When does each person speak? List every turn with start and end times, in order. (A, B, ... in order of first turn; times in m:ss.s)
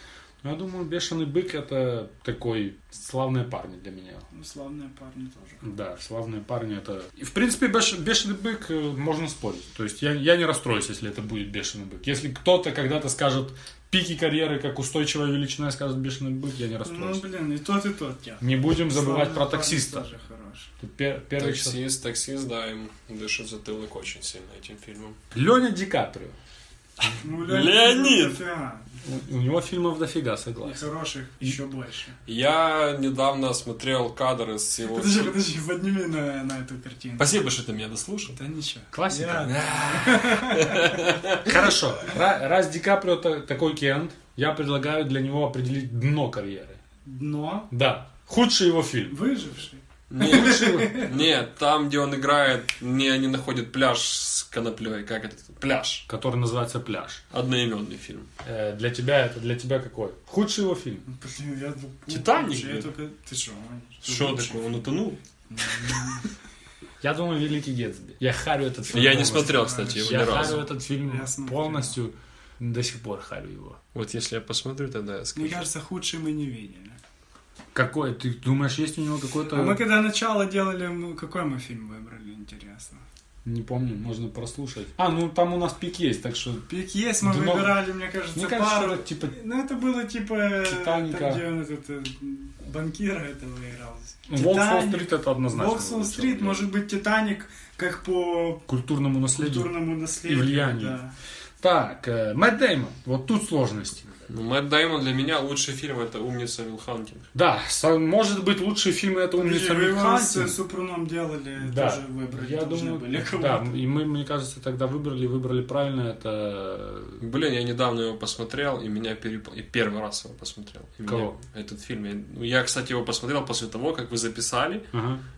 0:00.4-0:04.2 A
0:04.3-0:05.6 B
0:05.6-0:17.2 A
0:16.8-0:20.7 B
0:18.4-0:20.0 A
0:20.8-0:21.8 A
0:21.4-0:25.2 C
0:25.3-0:26.4 A
0:27.0-0:28.4 C
0:27.2-0:28.9 B
0:29.0-0:30.8 A
0:30.6-0:32.1 B
0:32.3-0:35.4 C
0:34.9-0:37.3 B
0:37.2-0:38.4 C
0:38.3-0:41.0 B
0:38.9-0:39.6 A
0:39.4-0:41.5 C
0:41.4-0:46.8 A
0:47.0-0:47.7 B
0:47.7-0:49.2 A
0:49.1-0:51.1 B
0:50.1-0:56.0 C
0:50.2-0:51.0 A
0:56.1-0:57.2 A
0:57.3-0:58.3 C
0:58.4-1:01.0 A
1:01.0-1:04.6 B
1:02.1-1:02.9 C
1:04.0-1:05.2 C
1:05.5-1:06.3 B
1:07.0-1:13.8 A
1:08.9-1:10.6 C
1:09.2-1:12.0 B
1:13.9-1:15.6 C
1:15.3-1:17.0 B
1:17.7-1:19.8 A
1:19.5-1:23.0 B
1:23.4-1:26.6 A
1:26.7-1:38.6 B
1:27.2-1:29.3 A
1:30.6-1:31.4 A
1:34.3-1:36.7 A
1:38.7-1:41.0 A
1:39.3-1:41.1 B
1:41.6-1:44.1 A
1:44.3-1:47.3 C
1:47.3-1:50.6 A
1:49.4-1:53.7 B
1:51.6-1:57.2 A
1:57.2-2:04.9 C
2:01.1-2:01.4 A
2:04.9-2:05.2 A